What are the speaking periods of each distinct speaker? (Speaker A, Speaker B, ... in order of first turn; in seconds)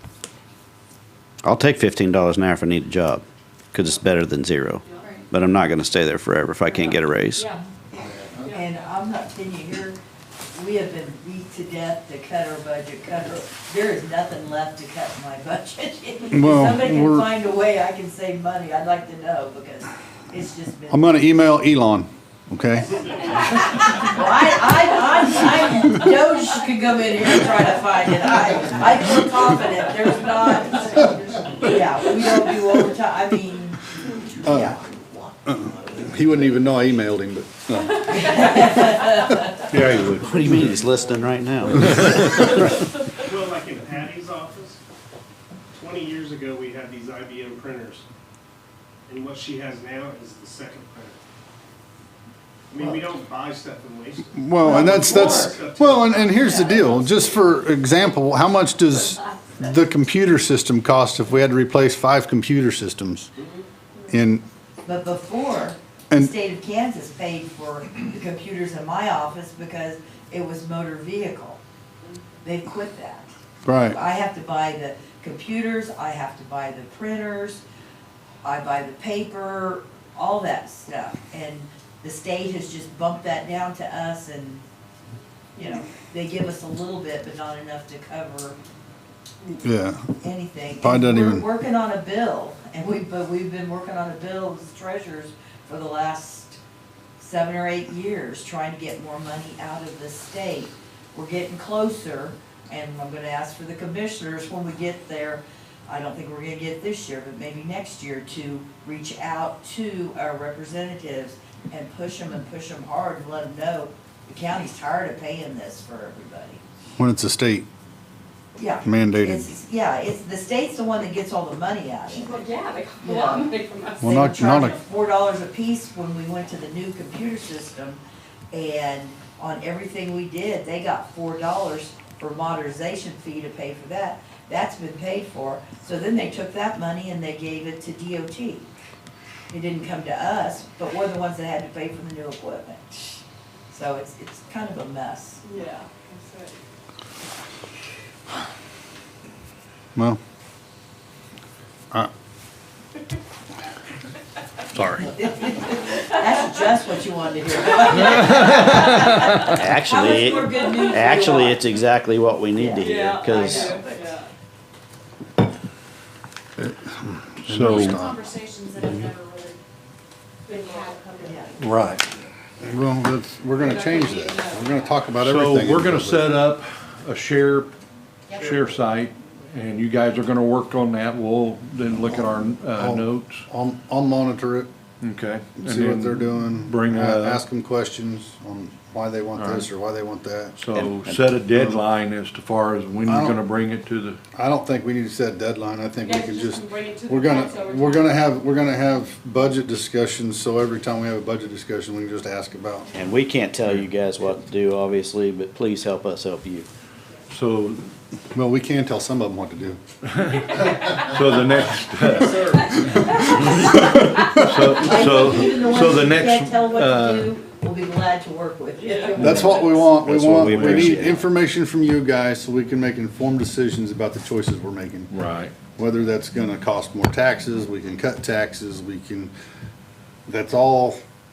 Speaker A: 1.4-7.5, 40.0-42.4, 159.5-163.8, 190.8-191.2, 202.9-206.7, 219.8-221.3
Speaker B: 4.9-5.2, 6.9-7.6, 8.4-8.7, 29.6-31.8, 122.1-124.2, 145.4-146.6, 162.8-164.3, 170.5-171.1, 173.6-174.8, 196.0-198.3, 218.8-219.3
Speaker C: 5.0-5.2, 167.7-169.6, 170.4-171.6
Speaker D: 8.4-10.0, 10.5-21.2, 23.3-34.9, 38.2-39.8, 54.6-55.6, 56.4-56.7, 64.8-71.6, 72.4-73.3, 73.9-77.6, 78.4-84.6, 85.5-88.6, 90.2-96.6, 97.2-116.6, 118.5-138.7, 139.5-145.4, 155.0-161.6, 162.6-164.2, 171.2-171.5, 214.3-220.0
Speaker E: 16.3-17.3, 20.9-23.0, 34.4-34.7, 35.5-38.7, 54.3-63.3, 64.1-64.4, 73.6-74.0, 89.6-90.1, 90.8-91.5, 117.0-117.7, 118.8-119.5, 124.0-124.8, 166.6-168.2, 172.6-176.3, 182.7-184.7, 185.6-190.6, 191.5-191.8, 193.1-193.4, 194.3-202.9, 208.3-209.8, 219.2-225.1, 225.8-229.3, 230.3-231.0
Speaker F: 39.7-40.8, 154.8-155.1, 158.2-158.6, 159.2-159.5, 167.5-168.1, 171.6-172.1, 175.2-177.7, 178.3-183.4, 185.0-187.4, 189.4-189.7, 190.6-194.2, 207.3-207.9, 210.1-217.3, 219.2-219.5, 220.5-220.9, 225.1-225.6
Speaker G: 40.5-41.9, 43.2-44.8, 45.7-48.1, 49.1-51.2, 52.7-57.5, 178.4-178.8